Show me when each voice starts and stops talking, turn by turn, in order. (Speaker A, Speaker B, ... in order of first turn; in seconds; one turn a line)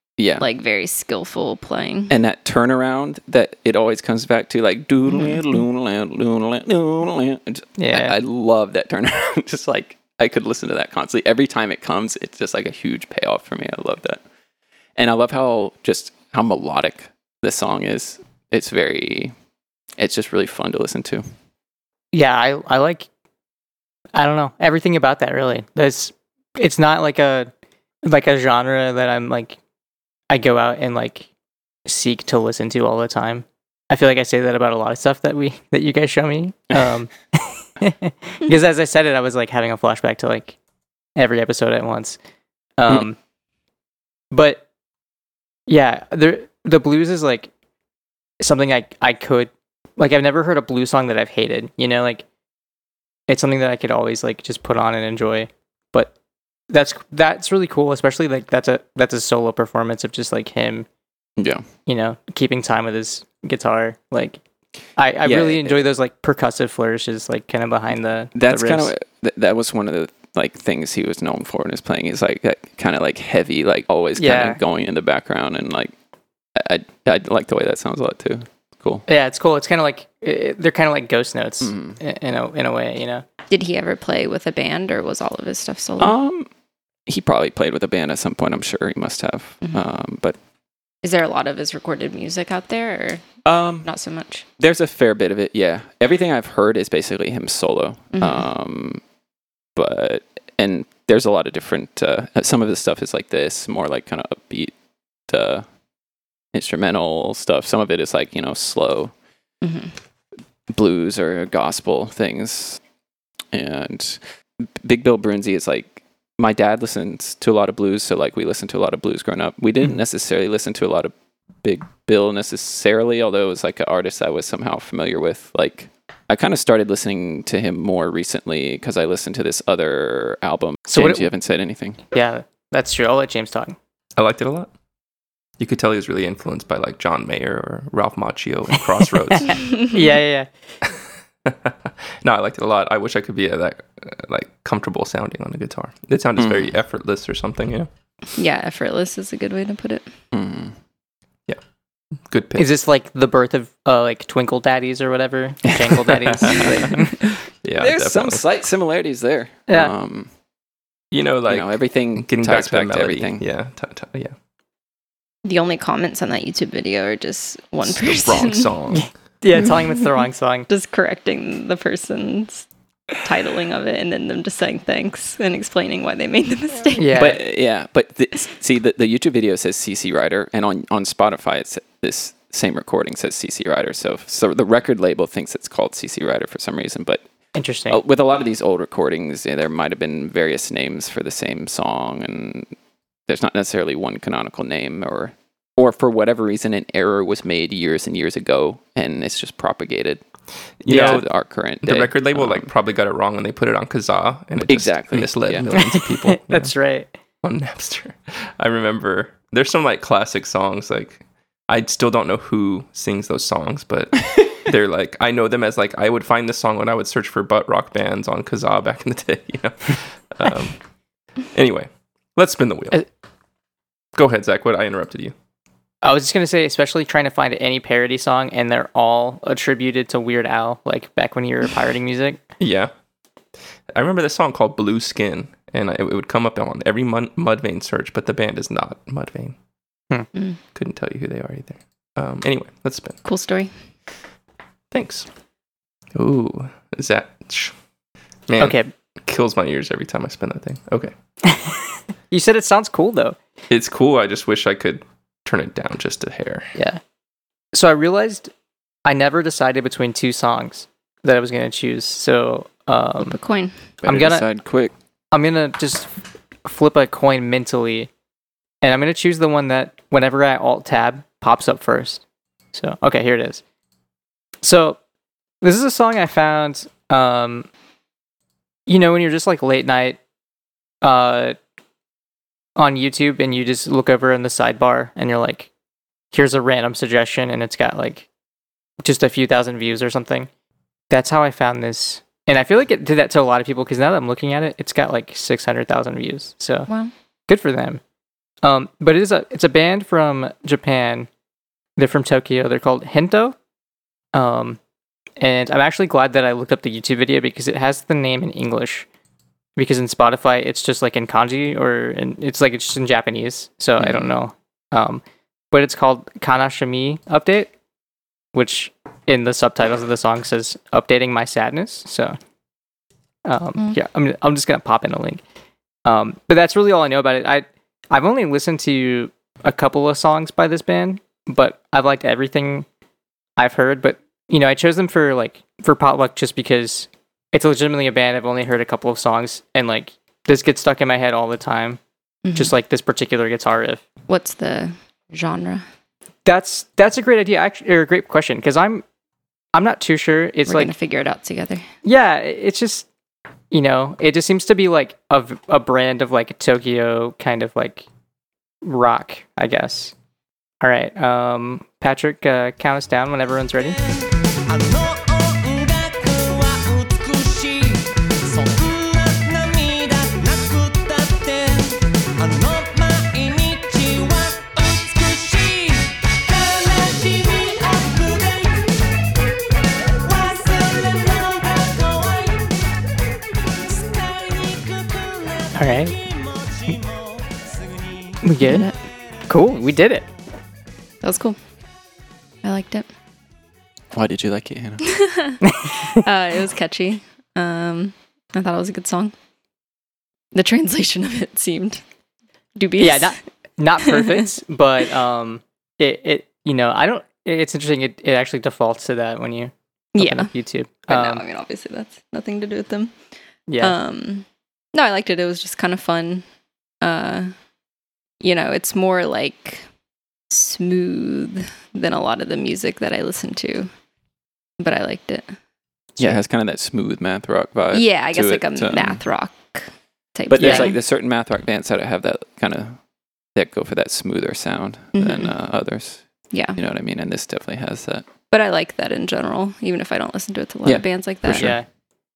Speaker A: 0.2-0.5
Speaker B: 0.4-2.1
Speaker A: 2.1-14.2
Speaker C: 7.8-8.2
Speaker A: 15.0-19.3
Speaker A: 20.0-21.2
Speaker C: 22.1-23.1
Speaker C: 24.1-27.5
Speaker C: 28.0-29.6
Speaker C: 30.3-31.3
Speaker C: 31.9-40.6
Speaker C: 41.2-42.2
Speaker C: 42.8-43.2
Speaker C: 44.3-44.6
Speaker C: 45.7-47.5
Speaker C: 48.4-52.2
Speaker C: 53.3-56.1
Speaker C: 56.7-60.9
Speaker A: 61.4-61.7
Speaker C: 61.9-64.4
Speaker C: 65.0-68.9
Speaker A: 65.2-65.8
Speaker A: 68.3-75.9
Speaker C: 74.2-74.6
Speaker A: 76.6-79.0
Speaker C: 79.1-83.2
Speaker A: 81.6-82.0
Speaker B: 83.5-86.2
Speaker A: 86.0-86.5
Speaker A: 87.1-90.4
Speaker B: 91.0-93.2
Speaker A: 93.4-93.9
Speaker B: 93.8-94.4
Speaker A: 94.6-99.0
Speaker B: 98.1-98.5
Speaker A: 99.8-104.7
Speaker A: 105.3-105.7
Speaker A: 106.5-109.1
Speaker B: 109.6-109.9
Speaker A: 110.7-112.8
Speaker A: 113.5-121.1
Speaker A: 121.6-132.0
Speaker C: 130.9-131.3
Speaker C: 132.1-133.8
Speaker D: 134.2-134.7
Speaker D: 135.6-139.6
Speaker C: 139.3-140.5
Speaker D: 140.8-147.9
Speaker A: 146.4-146.7
Speaker B: 148.4-150.1
Speaker A: 150.3-150.7
Speaker D: 152.3-152.7
Speaker C: 152.6-157.2
Speaker A: 156.0-156.6
Speaker D: 156.5-158.4
Speaker A: 157.8-160.3
Speaker D: 161.1-164.3
Speaker A: 161.5-163.4
Speaker B: 165.4-168.7
Speaker D: 167.8-169.1
Speaker C: 168.9-170.7
Speaker B: 170.7-172.7
Speaker B: 173.2-177.2
Speaker C: 176.9-177.4
Speaker A: 177.1-187.2
Speaker C: 187.6-188.0
Speaker A: 187.9-192.7
Speaker A: 193.3-200.2
Speaker D: 200.8-201.3
Speaker A: 200.9-202.7
Speaker C: 200.9-201.2
Speaker D: 201.8-206.7
Speaker A: 204.7-205.8
Speaker C: 205.7-207.1
Speaker D: 207.4-220.8
Speaker D: 221.5-223.0
Speaker D: 224.1-225.3
Speaker C: 226.0-232.4
Speaker D: 232.6-232.9
Speaker D: 233.9-239.6
Speaker D: 240.7-243.2
Speaker B: 243.2-243.7
Speaker D: 244.9-245.3
Speaker D: 246.1-247.7
Speaker D: 248.5-251.1
Speaker C: 248.6-248.9
Speaker C: 251.5-251.8
Speaker C: 252.3-253.4
Speaker D: 253.7-256.7
Speaker C: 256.8-257.0
Speaker C: 257.7-258.5
Speaker C: 259.0-263.4
Speaker B: 263.2-263.8
Speaker A: 264.0-264.9
Speaker C: 264.0-264.4
Speaker C: 265.3-266.1
Speaker C: 266.6-268.1
Speaker C: 268.8-272.2
Speaker C: 272.7-273.6
Speaker C: 274.6-275.0
Speaker C: 275.6-277.7
Speaker C: 278.9-280.2
Speaker C: 281.0-281.6
Speaker C: 282.8-285.7
Speaker C: 286.3-288.3
Speaker C: 289.0-290.5
Speaker C: 291.1-296.9
Speaker C: 297.5-298.0
Speaker C: 298.6-301.3
Speaker C: 302.0-303.6
Speaker C: 304.3-304.8
Speaker C: 305.4-309.1
Speaker C: 309.8-317.7
Speaker B: 314.0-314.3
Speaker C: 318.5-322.4
Speaker C: 323.4-325.4
Speaker C: 326.0-332.9
Speaker C: 333.6-342.0
Speaker B: 342.4-342.7
Speaker C: 342.5-344.0
Speaker B: 344.3-345.8
Speaker C: 346.4-349.0
Speaker C: 349.7-350.9
Speaker B: 350.7-351.9
Speaker C: 352.0-353.1
Speaker C: 353.7-358.1
Speaker C: 358.8-360.1
Speaker C: 360.8-364.0
Speaker E: 364.7-378.9
Speaker E: 380.2-382.7
Speaker E: 383.9-387.2
Speaker C: 385.8-386.1
Speaker C: 388.4-388.9
Speaker B: 388.6-388.9
Speaker C: 389.5-390.3
Speaker B: 391.2-391.6
Speaker B: 392.6-393.1
Speaker A: 394.1-395.0
Speaker B: 395.1-399.3
Speaker C: 395.6-396.2
Speaker B: 400.5-402.0
Speaker B: 402.8-403.3
Speaker C: 403.0-411.4
Speaker B: 410.1-410.5
Speaker B: 411.1-413.1
Speaker C: 413.7-414.0
Speaker B: 413.8-416.4
Speaker B: 417.0-417.5
Speaker B: 418.4-419.9
Speaker B: 420.5-423.9
Speaker B: 424.8-425.5
Speaker A: 426.2-429.2
Speaker B: 427.9-429.8
Speaker B: 430.4-431.0
Speaker A: 430.5-433.0
Speaker C: 430.6-430.9
Speaker A: 433.5-436.2
Speaker B: 435.1-435.5
Speaker B: 436.5-436.8
Speaker A: 436.8-438.2
Speaker B: 438.5-441.7
Speaker A: 440.9-441.7
Speaker C: 441.5-441.9